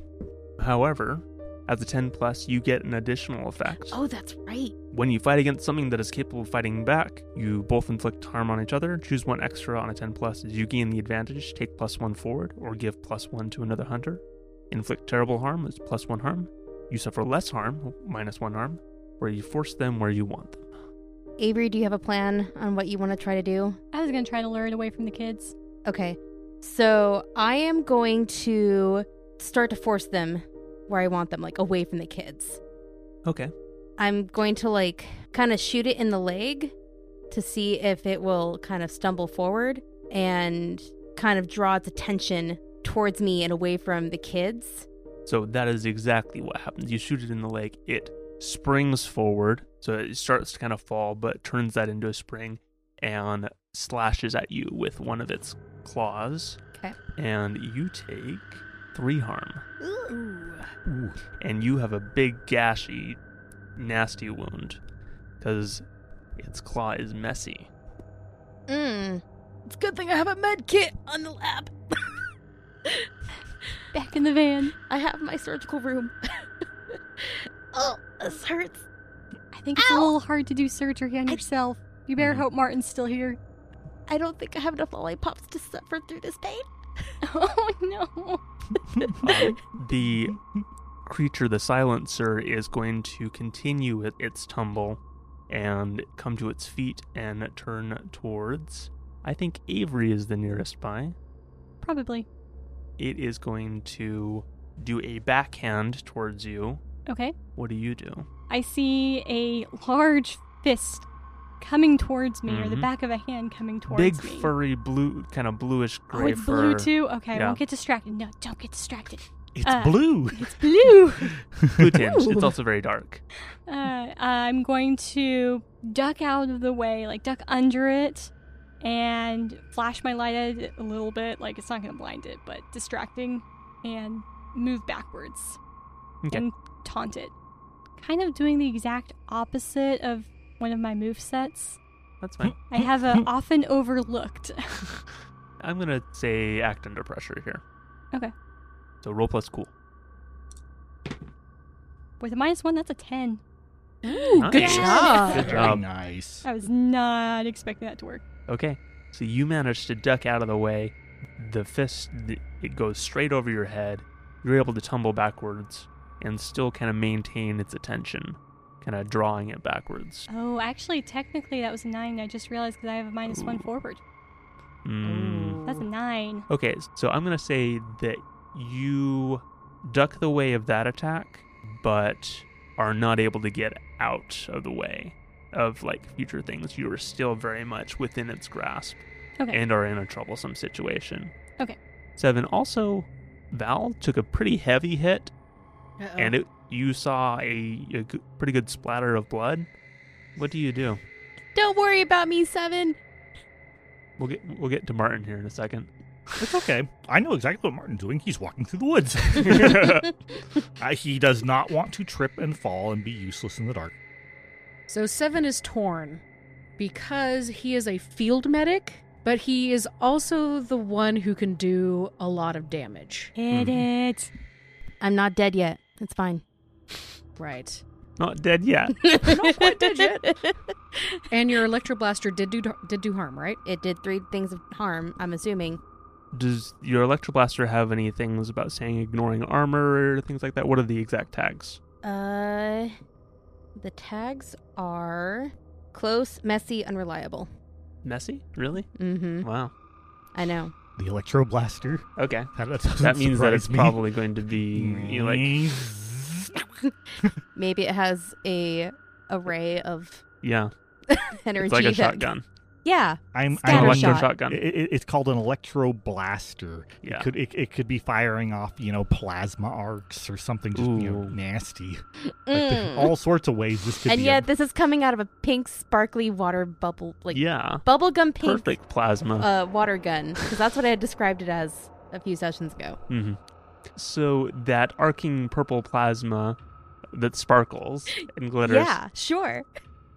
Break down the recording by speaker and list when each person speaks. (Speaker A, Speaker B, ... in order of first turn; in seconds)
Speaker A: 0.6-4.0, 4.9-20.7, 33.2-33.5, 45.3-56.6, 57.2-59.6, 61.4-63.2, 63.8-64.8, 65.4-65.8, 66.4-67.7, 82.2-82.5, 89.2-90.4, 91.0-101.2, 103.0-106.8, 107.6-108.3, 112.5-112.9, 113.9-117.6, 121.8-123.2, 142.2-142.6, 145.6-147.6, 149.0-149.7, 154.4-155.8, 158.5-170.3, 173.3-173.7, 174.8-175.6, 176.5-191.3, 192.2-195.3, 196.2-199.7, 200.4-201.0, 204.2-205.9, 209.4-210.1, 223.5-223.8, 228.2-229.2, 236.3-241.8, 248.0-248.9, 249.4-249.7, 252.2-255.5, 260.4-260.7, 261.6-262.4, 263.6-264.6, 267.0-267.3, 270.8-271.4, 277.3-277.9, 278.4-279.5, 283.1-283.4, 284.0-286.6, 287.1-289.0
Speaker B: 3.9-4.7, 21.4-23.8, 25.9-32.6, 34.0-36.7, 37.3-44.9, 59.8-60.7, 68.7-72.2, 74.9-76.5, 77.2-78.9, 79.8-80.1, 84.1-86.7, 154.6-155.4, 201.6-203.0, 225.0-226.4, 229.0-231.3, 233.7-235.8, 242.0-242.9, 243.8-247.5, 249.0-249.5, 250.3-250.7, 257.6-260.2, 261.1-262.3, 262.9-264.3, 272.5-273.1, 274.1-278.8, 279.4-283.0, 288.6-289.7
Speaker C: 23.9-25.5, 73.9-74.8, 79.5-83.4, 87.2-88.4, 101.8-102.3, 107.1-107.4, 108.5-111.1, 111.6-114.5, 116.1-121.3, 123.7-135.6, 136.3-137.3, 138.0-141.8, 142.7-144.9, 152.2-153.4, 154.1-155.5, 156.4-158.2, 170.3-174.0, 175.6-176.5, 223.4-224.3
Speaker D: 60.9-61.2, 119.5-120.7, 121.2-122.0, 142.8-143.2, 155.4-156.4, 206.4-210.1, 210.8-213.9, 251.0-254.0, 254.7-256.6, 263.3-274.5
Speaker E: 154.0-155.7, 175.1-175.7, 196.0-196.4, 214.9-216.2, 216.8-223.3, 227.4-227.8, 229.2-230.2, 231.3-233.6